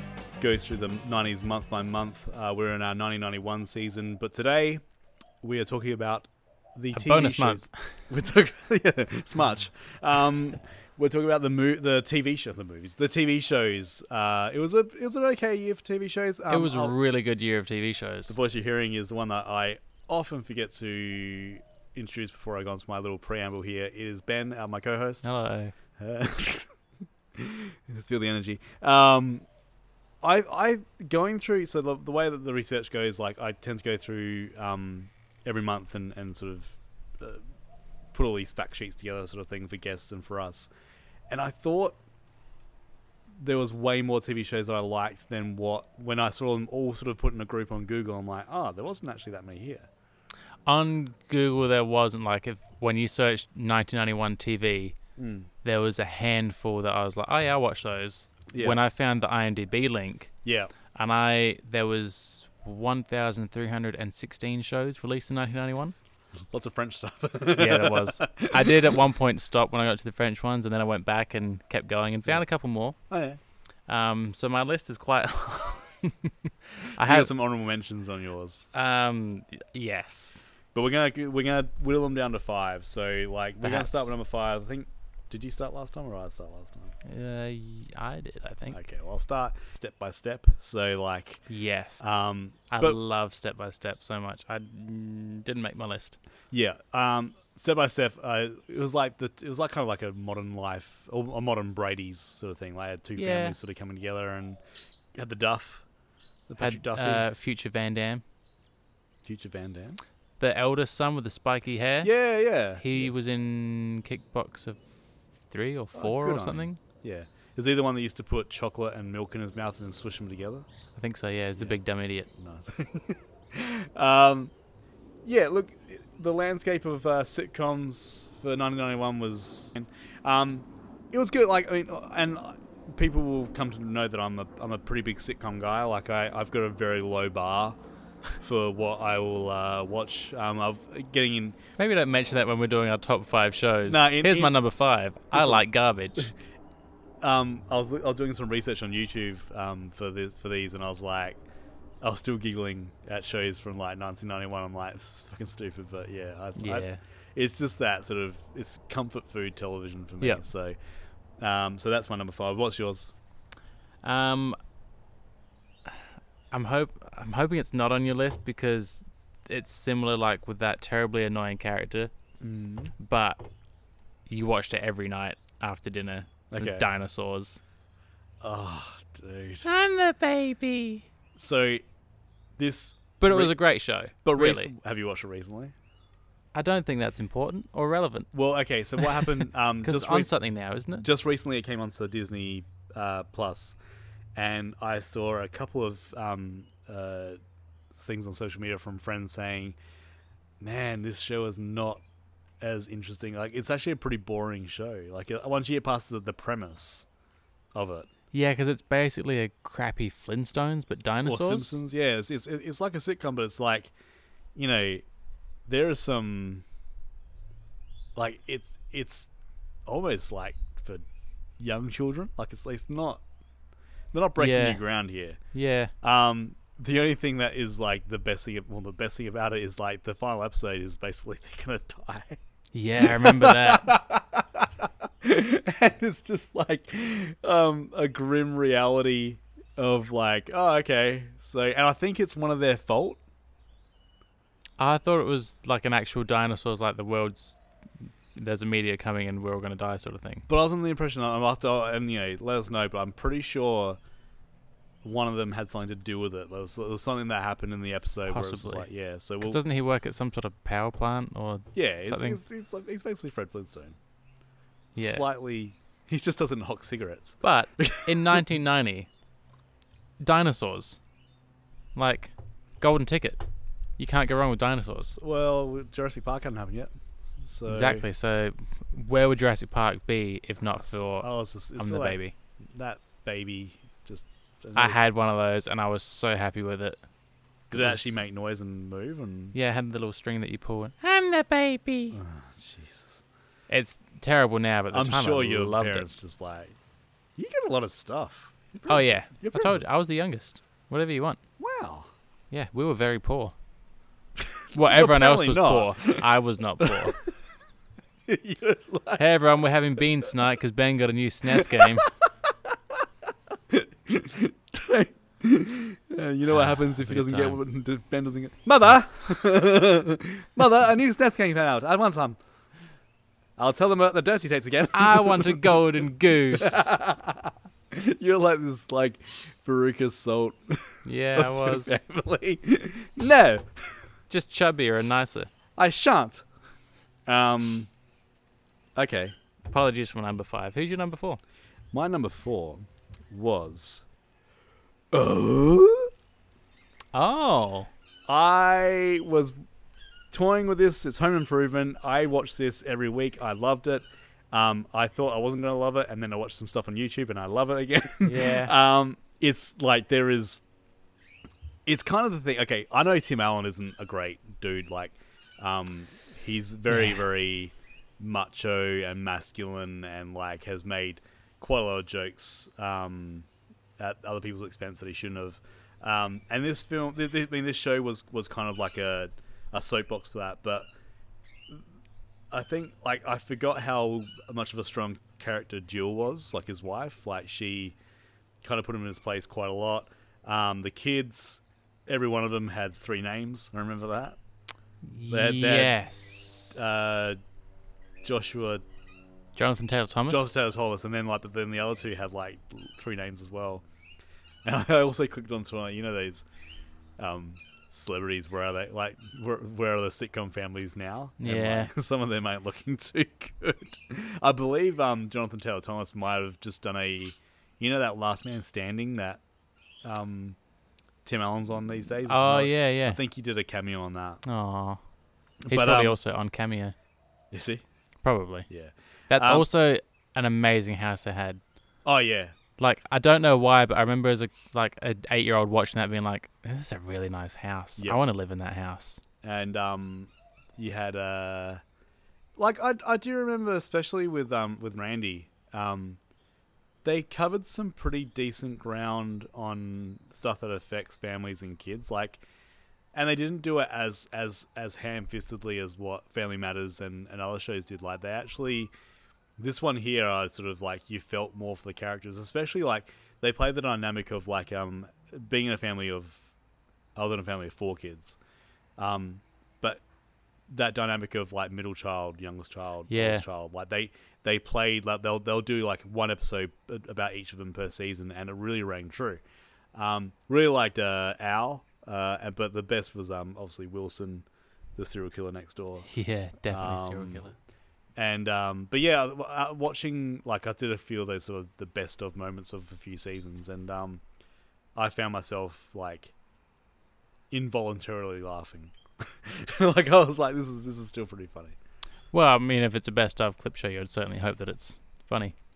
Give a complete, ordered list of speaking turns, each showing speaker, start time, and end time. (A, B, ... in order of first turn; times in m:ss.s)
0:00.4-0:04.8 A
0:05.4-0:17.0 A
0:06.9-0:07.7 B
0:16.5-0:18.4 B
0:18.3-0:25.2 A
0:25.2-0:25.7 B
0:26.0-0:26.7 A
0:27.4-0:29.5 A
0:30.2-0:37.4 A
0:38.1-0:40.7 A
0:41.3-0:42.0 A
0:43.4-0:49.9 A
0:50.7-0:55.0 B
0:55.2-0:55.5 A
0:55.6-1:00.3 B
0:58.5-0:58.8 A
1:00.4-1:00.7 A
1:00.9-1:06.0 B
1:06.5-1:09.0 A
1:07.6-1:13.0 B
1:13.1-1:13.4 A
1:13.9-1:17.3 B
1:17.0-1:18.7 A
1:18.7-1:20.5 B
1:20.7-1:27.0 A
1:23.6-1:24.1 B
1:27.0-1:28.8 B
1:28.7-1:31.4 A
1:31.5-1:32.0 B
1:32.0-1:33.0 A
1:32.7-1:36.2 B
1:36.5-1:44.6 A
1:43.2-1:43.6 B
1:45.1-1:45.8 A
1:46.5-1:47.2 A
1:46.6-1:48.2 B
1:49.2-1:50.0 A
1:50.4-1:52.1 B
1:52.0-1:53.1 A
1:52.8-1:56.8 B
1:56.0-2:00.7 A
2:01.0-2:02.3 B
2:02.4-2:04.5 A
2:05.2-2:17.8 A
2:18.4-2:21.6 A
2:21.8-2:26.3 B
2:23.9-2:24.6 A
2:25.3-2:25.6 A
2:27.2-2:31.4 A
2:32.0-2:40.8 A
2:36.6-2:37.0 B
2:41.4-2:43.1 A
2:44.0-2:44.6 B
2:46.5-2:52.1 B
2:52.4-2:52.9 A
2:53.0-2:53.4 B
2:54.3-2:57.6 B
2:56.5-2:56.9 A
2:58.4-2:59.7 A
2:59.6-3:01.1 B
3:01.4-3:01.8 A
3:02.6-3:03.6 A
3:03.2-3:04.7 B
3:04.2-3:05.7 A
3:06.5-3:08.3 B
3:08.3-3:10.3 A
3:09.0-3:11.1 B
3:11.0-3:13.8 A
3:14.4-3:17.4 A
3:17.9-3:19.8 A
3:20.6-3:22.0 A
3:22.6-3:27.1 A
3:27.8-3:28.1 A
3:28.3-3:31.8 B
3:31.2-3:33.9 A
3:34.6-3:35.0 A
3:35.7-3:36.6 A
3:38.2-3:39.3 A
3:39.9-3:41.0 A
3:41.6-3:43.2 A
3:44.1-3:45.4 A
3:44.4-3:44.8 B
3:45.5-3:45.9 B
3:46.0-3:52.4 A
3:52.7-3:53.9 B
3:53.0-4:03.2 A
4:04.8-4:07.6 B
4:08.4-4:10.5 B
4:10.5-4:14.0 A
4:15.0-4:19.6 A
4:18.3-4:18.9 B
4:19.4-4:22.4 B
4:21.8-4:24.0 A
4:25.0-4:28.4 A
4:25.0-4:25.3 B
4:27.4-4:29.1 B
4:30.2-4:31.0 B
4:32.0-4:33.4 B
4:34.0-4:35.1 B
4:35.0-4:38.1 A
4:37.7-4:42.3 B
4:40.8-4:42.2 A
4:42.7-4:45.0 A
4:44.8-4:47.0 B
4:47.7-4:48.1 B
4:47.7-4:49.6 A
4:49.5-4:52.2 B
4:52.1-4:53.2 A
4:53.7-4:56.1 B
4:54.9-4:56.8 A
4:57.4-4:59.8 A
4:58.9-5:01.4 B
5:01.6-5:02.1 A
5:02.5-5:03.6 B
5:04.4-5:06.3 A
5:04.7-5:07.2 B
5:06.8-5:07.3 A
5:08.3-5:09.3 A
5:09.2-5:12.1 B
5:11.5-5:13.0 A
5:13.7-5:22.4 A
5:16.5-5:17.6 B
5:23.6-5:25.8 A
5:24.9-5:27.0 B
5:26.5-5:33.7 A
5:31.0-5:32.0 B
5:34.3-5:35.5 B
5:35.8-5:36.4 A
5:37.3-5:37.9 A
5:39.0-5:39.4 A
5:39.7-5:41.4 B
5:41.9-5:44.0 A
5:45.1-5:46.1 A
5:47.1-5:47.9 B
5:48.3-5:49.6 A
5:50.3-6:00.6 A
5:58.2-5:58.7 B
6:01.9-6:20.9 A
6:06.9-6:07.2 B
6:22.5-6:28.0 A
6:28.6-6:34.4 A
6:35.1-6:36.8 B
6:35.3-6:35.9 A
6:36.7-6:37.4 A
6:38.2-6:38.8 A
6:39.6-6:40.5 B
6:40.3-6:43.8 A
6:44.6-6:46.4 A
6:47.2-6:59.4 A
6:51.4-6:51.9 B
7:00.0-7:00.6 A
7:01.2-7:04.4 A
7:02.3-7:03.2 B
7:04.4-7:05.0 B
7:05.7-7:06.2 A
7:05.7-7:07.0 B
7:07.5-7:07.8 A
7:08.2-7:08.7 B
7:08.7-7:09.7 A
7:09.3-7:11.6 B
7:12.0-7:12.6 A
7:12.8-7:19.2 B
7:19.4-7:21.8 A
7:22.6-7:26.2 A
7:27.0-7:32.4 A
7:33.1-7:38.9 A
7:39.6-7:46.5 A
7:47.2-7:48.4 A
7:49.0-7:50.0 A
7:50.7-7:59.4 A
7:53.1-7:53.4 B
7:59.9-8:06.1 A
8:06.0-8:07.5 B
8:06.7-8:07.4 A
8:08.2-8:14.2 A
8:15.0-8:16.3 A
8:17.5-8:21.8 A
8:22.3-8:25.6 B